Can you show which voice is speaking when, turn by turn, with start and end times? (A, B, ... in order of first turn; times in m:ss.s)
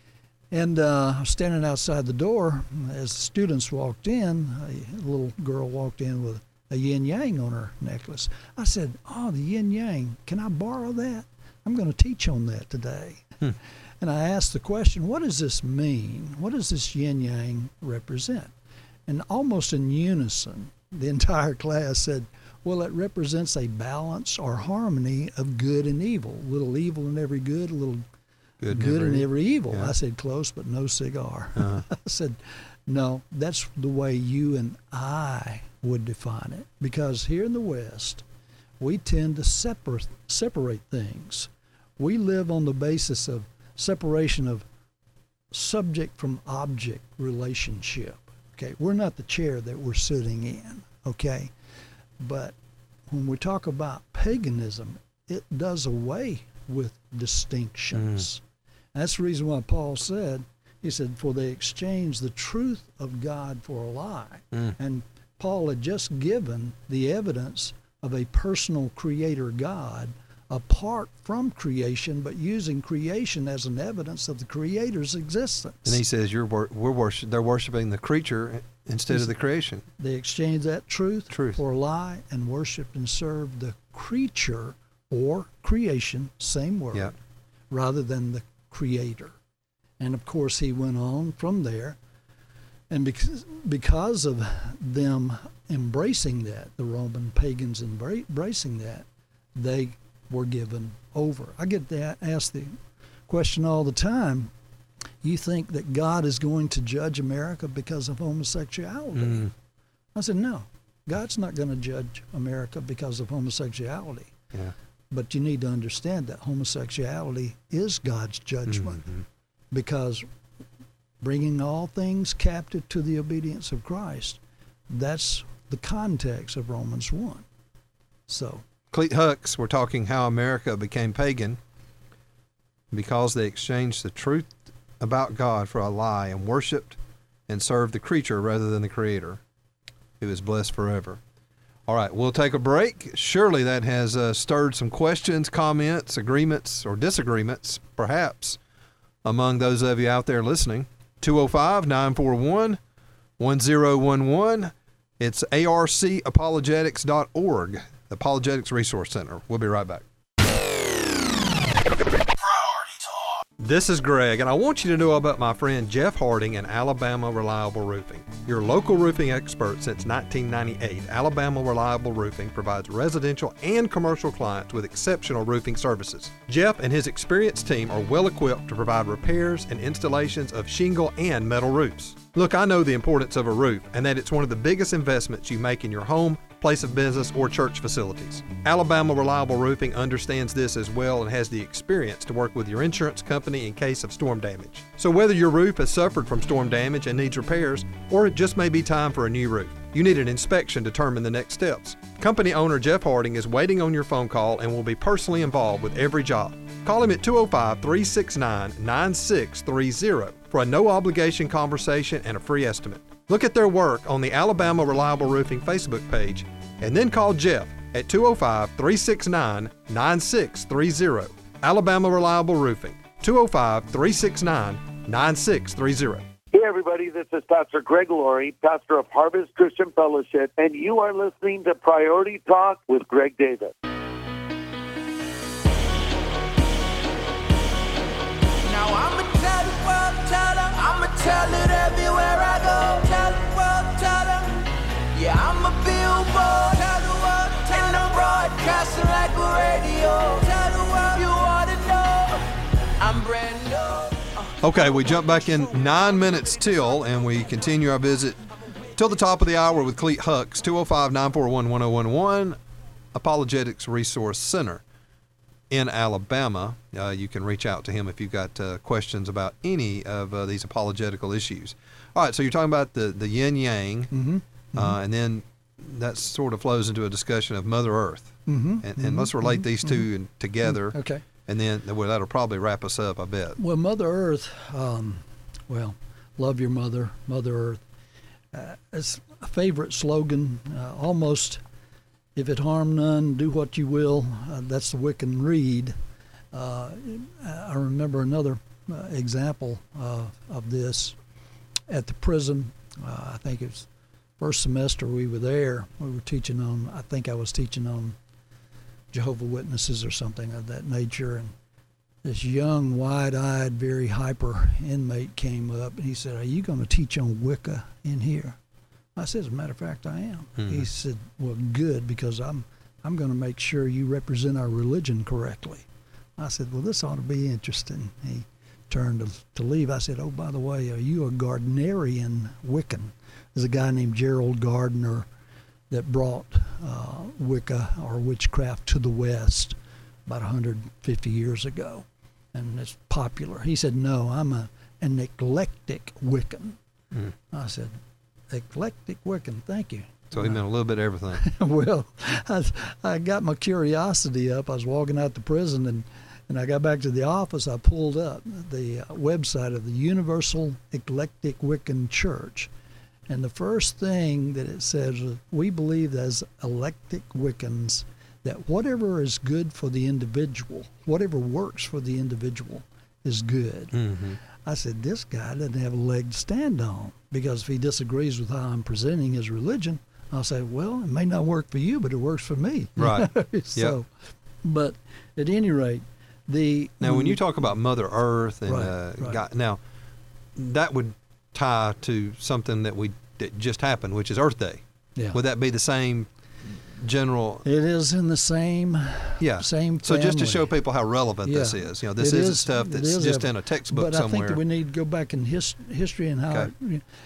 0:00.5-0:13.4 A
0:14.0-0:18.5 A
0:19.1-0:28.0 A
0:28.6-0:29.9 B
0:28.7-0:38.2 A
0:31.6-0:31.8 B
0:38.8-0:44.6 A
0:45.5-0:51.5 A
0:52.2-0:52.6 A
0:53.1-0:58.4 A
0:57.9-0:58.3 B
0:58.9-1:16.0 A
1:15.8-1:19.8 B
1:19.1-1:19.4 A
1:20.0-1:27.1 A
1:21.3-1:21.6 B
1:27.7-1:29.4 A
1:30.0-1:32.0 A
1:32.9-1:42.8 A
1:43.3-1:44.5 A
1:45.2-1:49.5 A
1:49.1-1:49.5 B
1:50.1-1:54.3 A
1:55.1-1:59.0 A
1:58.6-1:59.2 B
1:59.7-2:00.2 A
2:01.2-2:07.4 A
2:08.3-2:08.6 A
2:08.9-2:11.6 B
2:12.9-2:19.4 B
2:20.2-2:21.2 B
2:21.9-2:28.6 B
2:29.2-2:32.8 B
2:33.4-2:40.0 B
2:43.6-3:46.3 B
3:46.5-3:53.7 C
3:58.6-4:15.0 D
4:14.6-4:18.4 B
4:19.0-4:22.6 B
4:23.1-4:24.8 B
4:25.7-4:34.1 B
4:34.1-4:35.0 A
4:34.7-4:43.6 B
4:38.4-4:40.0 A
4:40.6-4:41.2 A
4:43.6-4:47.8 A
4:48.5-4:51.6 A
4:52.4-4:56.0 A
4:56.5-5:01.2 A
5:01.9-5:03.9 A
5:04.4-5:08.2 A
5:09.1-5:11.5 A
5:12.2-5:18.6 A
5:19.2-5:25.8 A
5:20.6-5:20.9 B
5:26.4-5:35.3 A
5:35.9-5:46.8 A
5:47.5-5:48.0 A
5:48.5-5:50.6 A
5:50.3-5:51.4 B
5:51.4-6:02.7 A
6:03.3-6:14.0 A
6:13.9-6:14.4 B
6:14.5-6:24.1 A
6:23.0-6:24.0 B
6:24.6-6:27.4 A
6:27.0-6:29.8 B
6:28.6-6:29.4 A
6:30.6-6:37.6 B
6:37.6-6:40.8 A
6:39.4-6:44.6 B
6:41.4-6:47.0 A